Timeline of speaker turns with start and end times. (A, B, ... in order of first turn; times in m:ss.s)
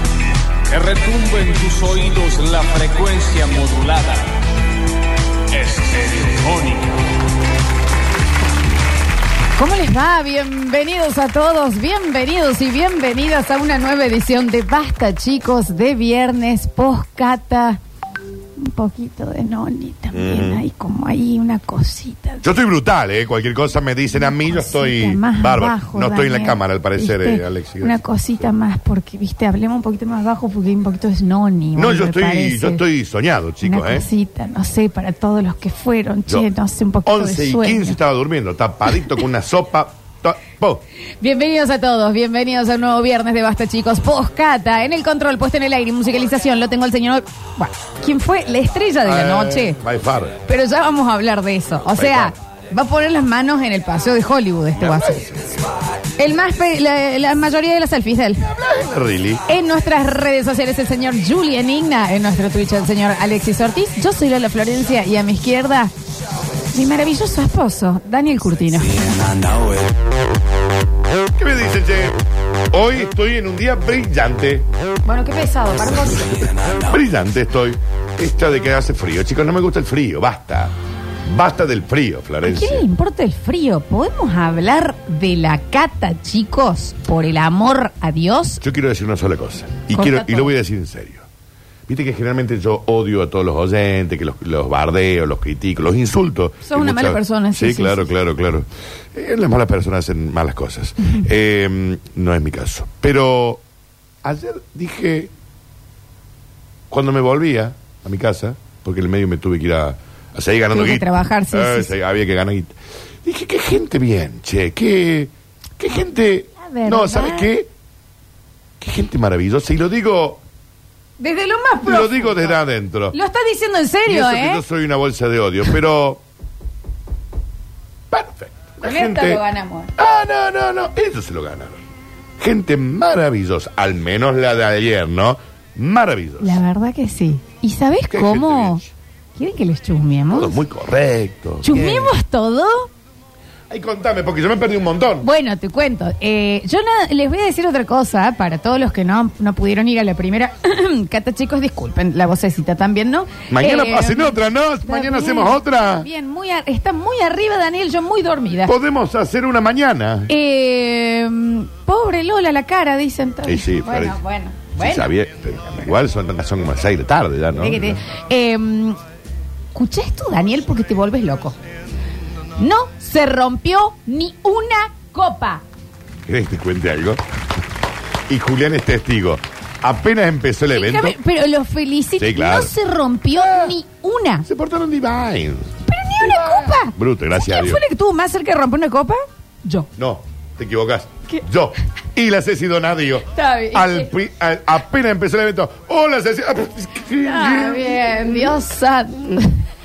0:00.7-0:04.4 A
0:05.5-0:07.0 A
0:09.6-0:17.8 B
0:18.6-0:22.4 B
0:20.1-0:20.6 C
0:22.4-0:28.0 C
0:24.1-0:32.8 B
0:31.8-0:34.1 C
0:33.6-0:38.0 B
0:37.0-0:40.8 C
0:41.2-0:49.8 B
0:49.0-0:50.4 C
0:50.4-0:55.2 B
0:51.8-0:52.3 C
0:54.7-0:55.8 C
0:56.2-0:58.4 B
0:58.4-0:59.4 C
0:59.5-1:05.9 B
1:06.7-1:09.2 B
1:11.3-1:12.2 C
1:12.7-1:14.7 C
1:15.0-1:16.5 B
1:16.6-1:20.7 C
1:21.2-1:22.9 C
1:22.4-1:28.6 B
1:28.6-1:31.3 C
1:29.9-1:30.5 B
1:31.9-1:43.6 C
1:36.6-1:38.1 B
1:44.2-1:45.3 C
1:46.9-1:57.7 C
1:50.7-1:51.9 B
1:56.6-1:57.5 B
1:58.8-2:00.4 C
2:01.2-2:02.6 B
2:01.8-2:03.2 C
2:03.1-2:04.6 B
2:04.1-2:06.2 C
2:08.1-2:09.4 C
2:08.8-2:09.9 B
2:10.0-2:11.8 C
2:12.4-2:16.6 C
2:16.4-2:18.8 B
2:18.1-2:18.9 C
2:19.4-2:20.6 B
2:20.3-2:22.1 C
2:21.6-2:22.9 B
2:23.7-2:25.3 C
2:25.2-2:38.7 B
2:33.5-2:36.1 C
2:38.6-2:40.3 C
2:40.3-2:45.1 B
2:43.4-2:44.2 C
2:44.8-2:48.0 C
2:47.5-2:49.0 B
2:49.7-2:51.6 B
2:52.6-2:55.6 B
2:56.3-2:57.2 C
2:58.3-3:01.2 C
3:00.7-3:04.4 B
3:02.2-3:02.7 C
3:03.3-3:03.8 C
3:04.4-3:07.8 C
3:05.9-3:09.9 B
3:10.0-3:18.5 C
3:13.3-3:14.1 B
3:17.2-3:19.6 B